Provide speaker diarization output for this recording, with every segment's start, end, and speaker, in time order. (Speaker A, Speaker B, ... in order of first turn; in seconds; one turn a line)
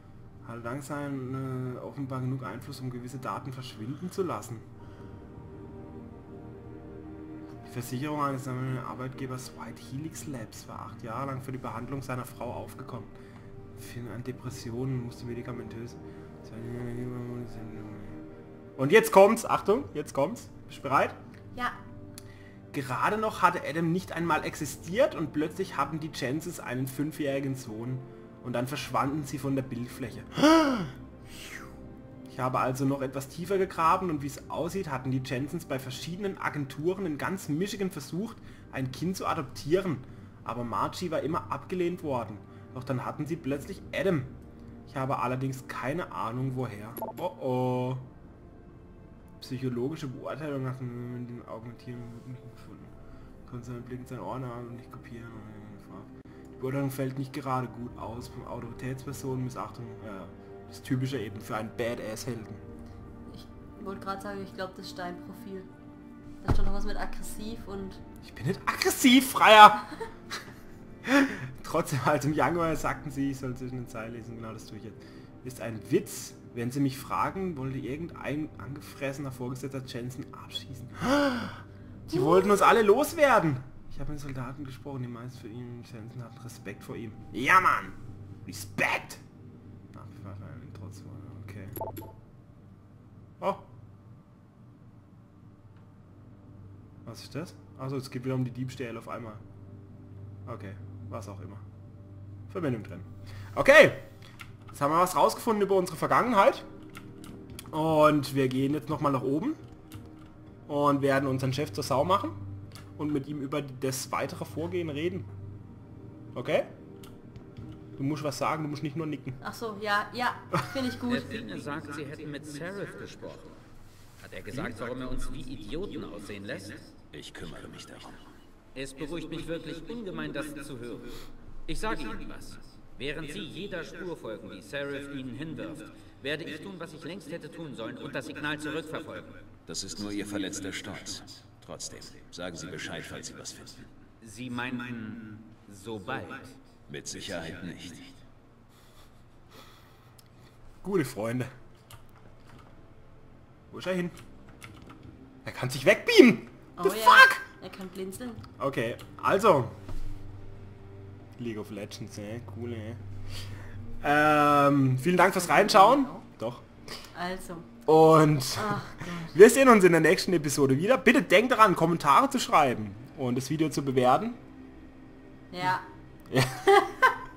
Speaker A: 0.4-4.7
Speaker A: 7.6-13.1
Speaker A: 13.8-18.2
Speaker A: 18.8-21.2
Speaker A: 22.7-30.9
Speaker A: 32.3-48.1
Speaker A: 49.4-52.9
Speaker A: 53.5-62.6
Speaker B: 63.3-65.7
Speaker B: 66.4-68.0
Speaker A: 68.2-69.9
Speaker A: 71.0-89.2
Speaker B: 82.1-82.8
Speaker A: 89.9-91.7
Speaker A: 93.4-93.7
Speaker A: 97.0-99.4
Speaker A: 100.5-101.6
Speaker A: 102.5-104.1
Speaker A: 104.7-106.7
Speaker A: 107.7-109.6
Speaker A: 110.7-112.4
Speaker A: 113.0-115.3
Speaker A: 116.3-116.7
Speaker A: 118.0-119.4
Speaker B: 119.4-121.4
Speaker C: 121.1-123.6
Speaker C: 124.2-126.9
Speaker D: 127.1-128.3
Speaker C: 128.7-139.4
Speaker D: 139.7-143.9
Speaker C: 144.2-146.6
Speaker D: 146.9-148.2
Speaker A: 150.8-151.5
Speaker A: 153.7-154.2
Speaker A: 155.4-157.4
Speaker B: 156.8-158.4
Speaker A: 158.6-159.8
Speaker A: 161.4-163.0
Speaker A: 164.0-166.6
Speaker B: 165.2-166.2
Speaker B: 167.1-167.7
Speaker A: 167.9-174.4
Speaker B: 168.6-169.3
Speaker B: 175.5-175.9
Speaker A: 176.3-176.7